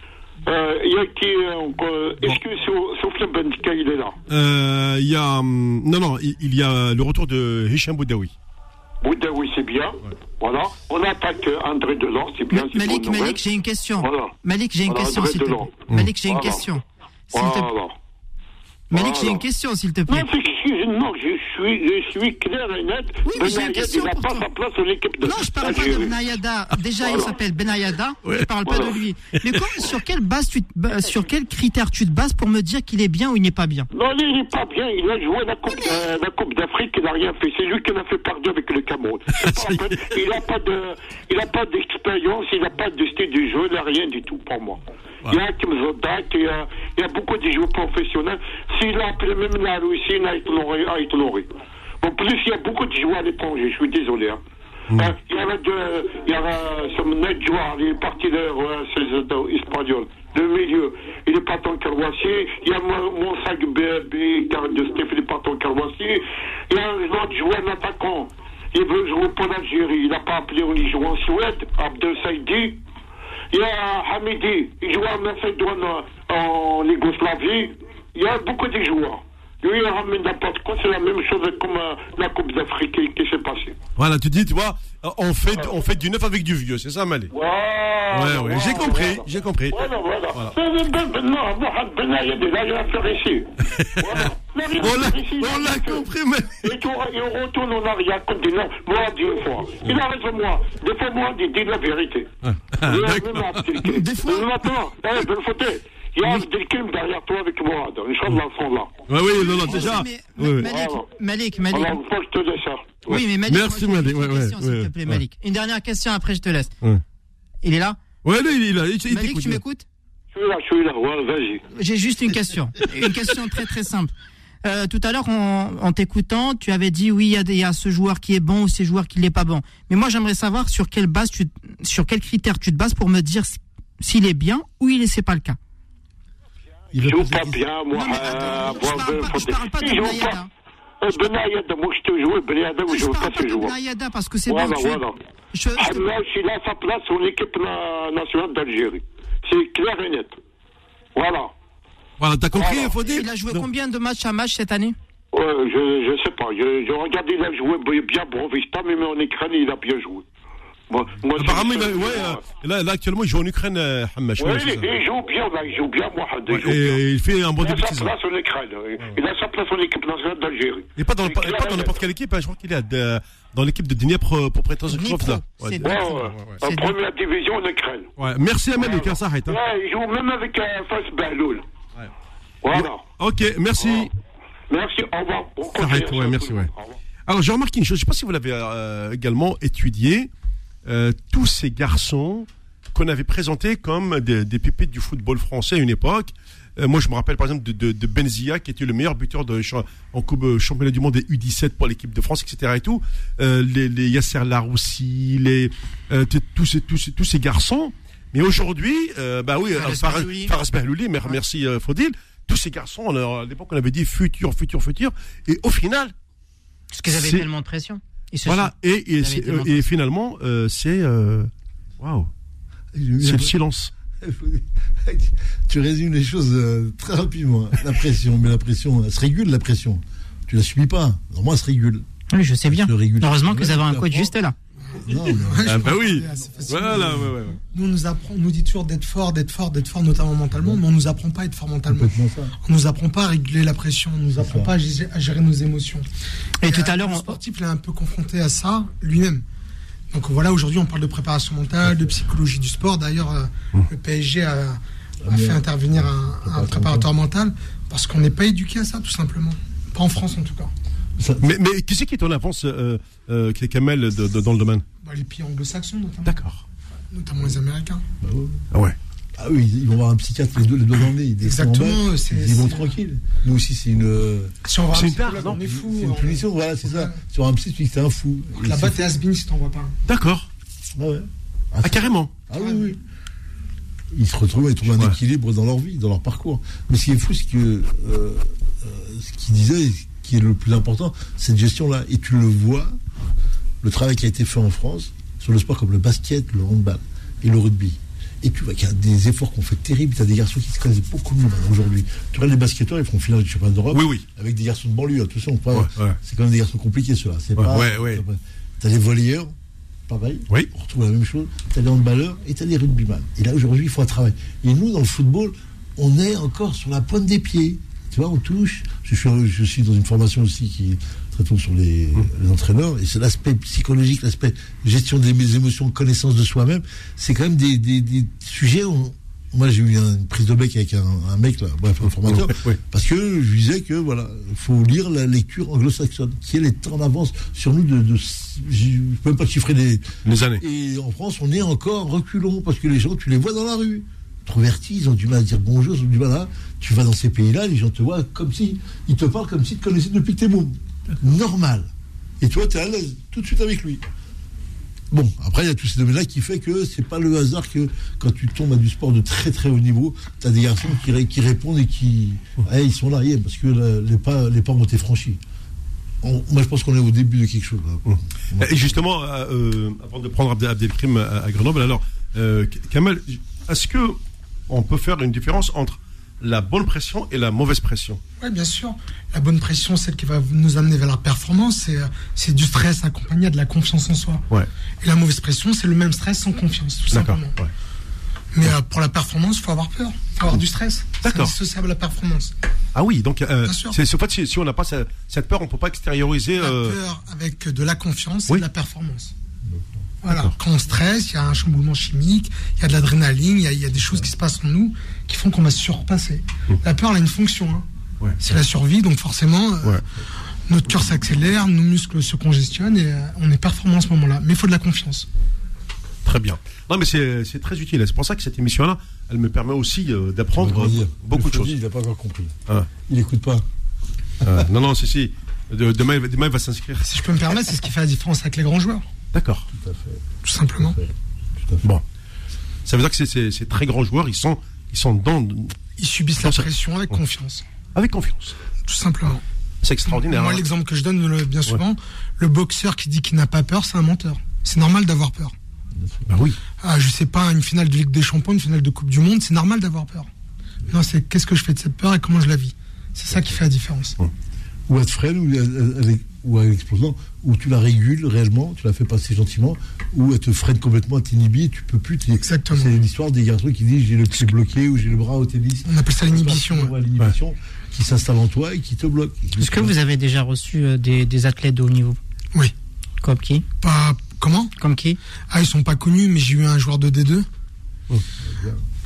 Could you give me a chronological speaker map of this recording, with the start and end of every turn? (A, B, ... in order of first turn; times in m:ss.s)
0:00.4-0:04.2 A
0:04.3-0:08.3 B
0:09.0-0:13.4 A
0:12.5-0:17.7 C
0:14.0-0:14.3 A
0:14.8-0:15.7 A
0:16.2-0:16.6 A
0:17.3-0:18.0 A
0:18.9-0:20.3 C
0:18.9-0:19.4 A
0:20.1-0:26.1 A
0:23.2-0:24.4 C
0:25.2-0:33.9 C
0:27.0-0:27.3 A
0:28.6-0:28.9 A
0:33.9-0:51.5 A
0:39.4-0:40.0 B
0:52.0-0:54.4 A
0:54.9-1:12.8 A
1:13.5-1:23.8 A
1:24.0-1:27.3 B
1:27.3-1:36.0 A
1:28.1-1:29.8 B
1:33.6-1:36.8 B
1:36.6-1:42.3 A
1:42.4-1:43.8 B
1:42.8-1:49.0 A
1:43.8-1:44.5 C
1:49.1-1:50.7 B
1:49.2-1:52.0 C
1:50.6-1:51.0 A
1:51.7-1:53.0 A
1:53.1-1:56.7 C
1:53.1-1:55.2 B
1:57.6-1:58.0 C
1:58.2-1:59.6 B
1:59.1-1:59.8 C
2:00.3-2:01.6 A
2:01.8-2:04.1 C
2:04.6-2:15.6 C
2:16.9-2:17.6 D
2:17.0-2:20.4 A
2:17.9-2:20.5 C
2:21.0-2:23.7 A
2:22.9-2:25.0 C
2:24.5-2:25.2 A
2:25.5-2:26.0 C
2:25.8-2:30.4 A
2:31.1-2:31.5 A
2:32.2-2:33.6 B
2:32.5-2:32.9 A
2:33.0-2:35.0 C
2:35.3-2:40.2 A
2:40.9-2:42.4 A
2:41.4-2:44.9 B
2:44.4-2:47.0 A
2:46.5-2:48.1 B
2:47.6-2:52.0 A
2:51.0-2:56.6 B
2:54.9-2:56.9 C
2:55.8-2:58.1 A
2:58.2-2:59.6 B
2:58.8-3:01.6 A
3:02.6-3:03.0 A
3:02.7-3:04.1 B
3:03.8-3:04.1 A
3:04.7-3:07.0 A
3:05.7-3:06.7 B
3:07.3-3:10.3 B
3:10.8-3:36.1 B
3:29.7-3:30.5 C
3:36.9-3:39.9 C
3:37.1-3:37.4 B
3:38.4-3:42.3 B
3:42.9-3:43.5 D
3:43.2-3:43.9 B
3:44.2-3:52.0 D
3:52.3-3:54.5 C
3:52.7-3:54.3 D
3:55.0-4:06.0 E
3:55.0-3:56.0 D
3:55.6-3:57.6 B
3:56.7-3:57.3 D
4:00.5-4:00.8 D
4:01.9-4:02.5 D
4:04.4-4:04.7 D
4:06.6-4:07.3 C
4:06.6-4:09.4 E
4:10.1-4:20.7 E
4:11.8-4:12.1 D
4:15.2-4:17.1 D
4:21.2-4:21.5 D
4:21.4-4:24.8 B
4:25.0-4:26.4 E
4:26.2-4:26.6 B
4:27.1-4:28.0 E
4:28.2-4:28.6 D
4:29.4-4:34.5 D
4:31.4-4:33.0 E
4:34.6-4:37.2 E
4:34.9-4:35.6 B
4:35.5-4:39.1 D
4:38.6-4:39.9 E
4:40.0-4:40.5 B
4:40.9-4:43.0 D
4:41.8-4:42.3 B
4:42.6-4:42.9 E
4:44.1-4:53.0 D
4:53.8-5:09.5 D
5:03.9-5:04.2 B
5:05.7-5:06.2 B
5:07.6-5:08.2 B
5:10.1-5:51.9 D
5:32.2-5:32.8 B
5:40.2-5:40.6 B
5:52.4-5:54.0 D
5:55.1-6:05.4 D
6:06.2-6:09.0 D
6:08.1-6:14.2 B
6:14.7-6:18.2 B
6:18.4-6:24.4 E
6:25.0-6:27.5 E
6:27.1-6:27.7 B
6:28.5-6:32.5 E
6:31.2-6:31.5 B
6:32.9-6:37.0 B
6:33.6-6:34.0 E
6:36.6-6:39.3 E
6:40.2-6:47.8 E
6:40.3-6:40.5 B
6:48.4-6:50.0 E
6:50.7-6:55.3 E
6:56.2-7:01.7 B
7:00.6-7:02.5 D
7:03.1-7:03.6 D
7:04.4-7:04.7 D
7:04.4-7:07.2 B
7:07.0-7:09.0 E
7:09.3-7:09.6 B
7:09.7-7:10.2 D
7:10.4-7:11.0 E
7:10.8-7:11.9 D
7:12.8-7:15.7 B
7:16.0-7:17.6 E
7:16.4-7:17.2 B
7:17.9-7:18.6 B
7:18.8-7:19.4 E
7:19.8-7:20.6 B
7:20.1-7:25.5 E
7:26.0-7:26.3 D
7:26.3-7:26.6 B
7:26.8-7:30.3 E
7:30.9-7:34.2 E
7:34.9-7:49.9 D
7:42.4-7:42.9 E
7:45.8-7:46.9 E
7:49.6-7:52.2 C
7:53.2-7:53.6 C
7:53.8-7:54.7 E
7:54.8-7:55.2 C
7:55.5-7:57.4 E
7:58.4-7:58.8 D